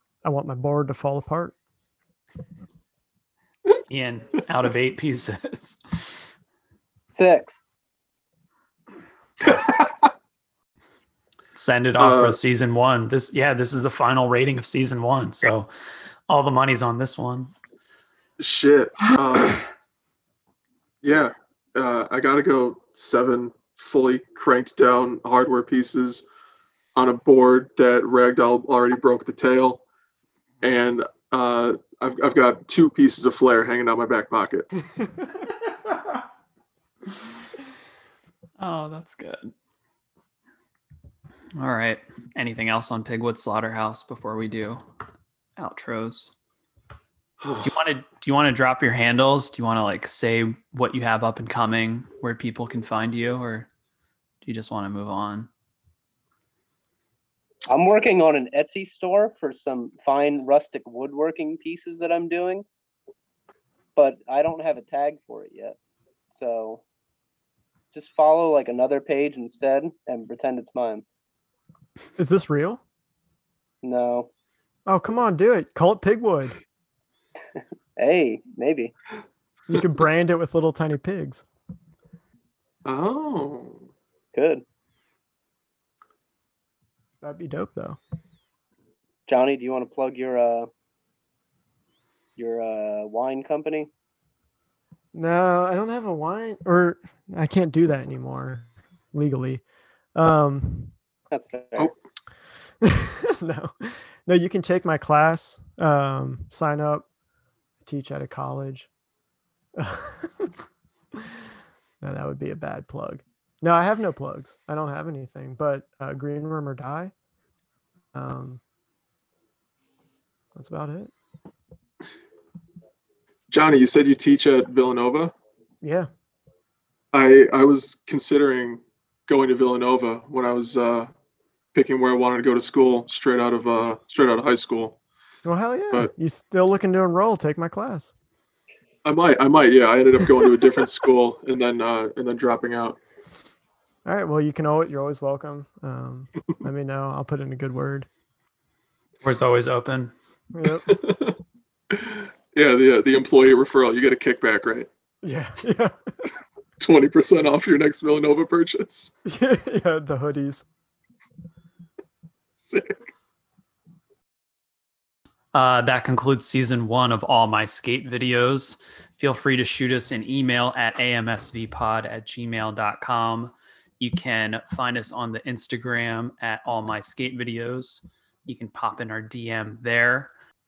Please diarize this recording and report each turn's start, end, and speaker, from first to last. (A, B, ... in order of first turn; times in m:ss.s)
0:00.2-0:01.6 A
0:03.9-0:06.2 B
0:07.1-0:07.6 C
0:09.5-0:09.8 D
0:11.6-0:15.7 B
0:12.0-0:12.4 D
0:16.3-0:17.5 B
0:18.4-0:19.6 D
0:21.0-0:26.2 D
0:27.0-0:29.8 D
0:30.6-0:34.7 D
0:38.6-0:39.5 B
0:41.6-0:44.8 B
0:45.6-0:46.3 B
0:47.4-0:47.7 D
0:47.6-0:53.7 B
0:54.4-0:55.5 B
0:57.7-1:02.6 C
1:04.0-1:05.8 C
1:06.3-1:06.8 C
1:07.9-1:11.0 C
1:12.2-1:12.8 A
1:13.8-1:14.3 C
1:14.9-1:16.6 A
1:18.0-1:18.9 C
1:19.7-1:21.4 A
1:22.8-1:23.9 D
1:24.4-1:24.6 C
1:27.2-1:28.0 A
1:29.3-1:30.7 C
1:32.4-1:33.9 C
1:35.1-1:39.6 A
1:40.2-1:40.9 A
1:41.3-1:41.9 C
1:42.8-1:47.0 A
1:47.8-1:48.9 A
1:49.8-1:50.5 A
1:52.0-1:57.1 A
1:58.1-1:58.6 A
2:00.6-2:01.1 A
2:03.5-2:05.3 D
2:05.8-2:06.1 A
2:07.1-2:11.1 D
2:11.7-2:15.0 D
2:15.4-2:18.1 A
2:19.0-2:23.0 D
2:24.0-2:28.1 A
2:29.2-2:30.1 B
2:30.5-2:31.0 A
2:30.8-2:31.4 D
2:31.9-2:34.9 D
2:35.2-2:36.1 A
2:36.8-2:39.1 D
2:39.3-2:40.7 A
2:42.6-2:43.1 D
2:45.5-3:00.3 B